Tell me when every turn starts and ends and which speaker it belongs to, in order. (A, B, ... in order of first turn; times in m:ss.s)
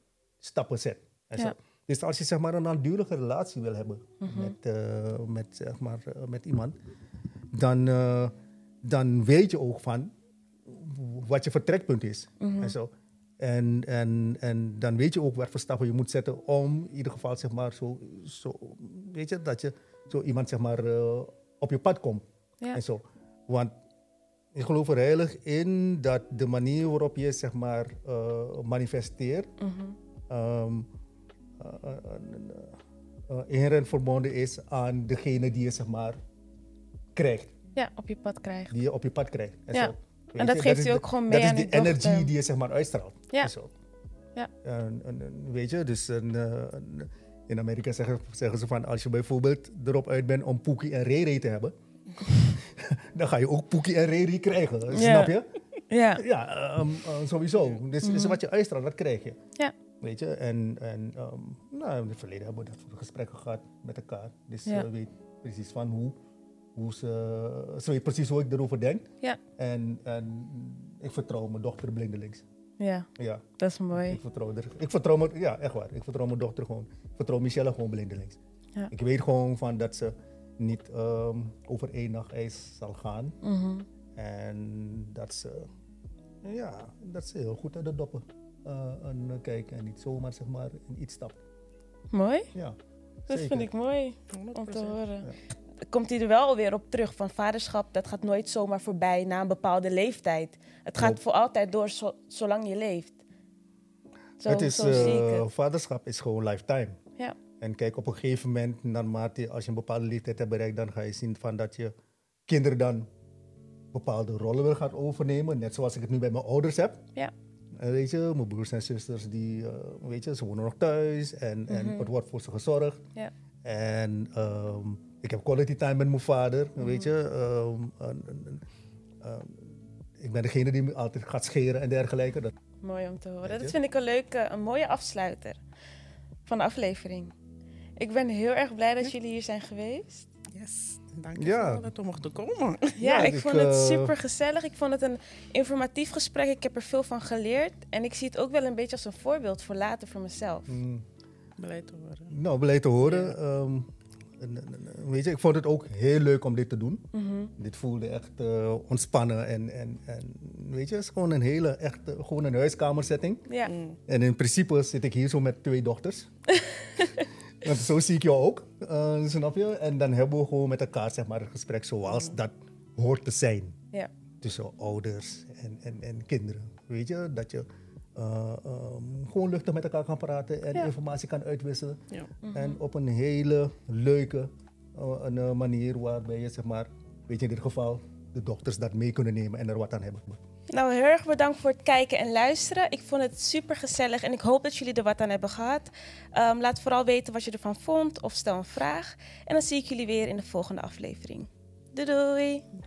0:00.4-0:06.7 A
0:04.2-0:04.5 B
0:07.5-0:10.1 A
0:10.6-0:23.7 A
0:12.4-0:12.7 B
0:24.5-0:29.5 A
0:29.6-0:30.0 B
0:30.3-0:30.9 A
0:31.6-0:36.2 A
0:37.1-0:37.5 A
0:37.7-0:38.7 B
0:38.7-0:43.7 A
0:39.7-0:42.3 B
0:44.6-0:55.5 A
0:54.9-0:55.4 B
0:55.9-0:56.2 B
0:56.2-0:59.4 A
0:58.0-0:58.4 B
1:00.0-1:06.2 A
1:06.8-1:09.0 A
1:09.6-1:12.4 A
1:12.8-1:14.2 B
1:13.2-1:18.4 A
1:18.9-1:23.4 A
1:23.4-1:23.8 B
1:24.2-1:25.7 A
1:26.4-1:31.4 A
1:32.1-1:32.5 B
1:32.5-1:33.7 A
1:33.3-1:35.3 B
1:34.3-1:35.0 C
1:35.8-1:43.2 B
1:44.4-1:45.5 B
1:44.4-1:47.0 A
1:47.6-1:51.9 A
1:52.5-1:53.1 A
1:53.9-1:57.0 A
1:57.8-2:03.0 A
2:01.7-2:02.1 B
2:03.6-2:08.6 A
2:06.8-2:07.1 B
2:09.2-2:12.5 A
2:12.8-2:15.6 B
2:13.4-2:13.7 A
2:16.4-2:17.3 B
2:18.0-2:20.3 B
2:20.5-2:23.1 C
2:21.4-2:21.9 A
2:23.0-2:30.8 B
2:23.0-2:24.2 A
2:30.7-2:31.0 A
2:31.6-2:32.3 C
2:32.3-2:37.1 A
2:33.0-2:33.4 C
2:37.1-2:37.5 B
2:37.6-2:43.4 A
2:43.5-2:43.7 B
2:43.6-2:44.0 C
2:44.1-2:46.3 A
2:46.8-2:47.2 B
2:47.6-2:53.8 A
2:54.4-3:02.0 A
3:02.4-3:02.8 B
3:02.5-3:10.4 A
3:10.7-3:22.7 B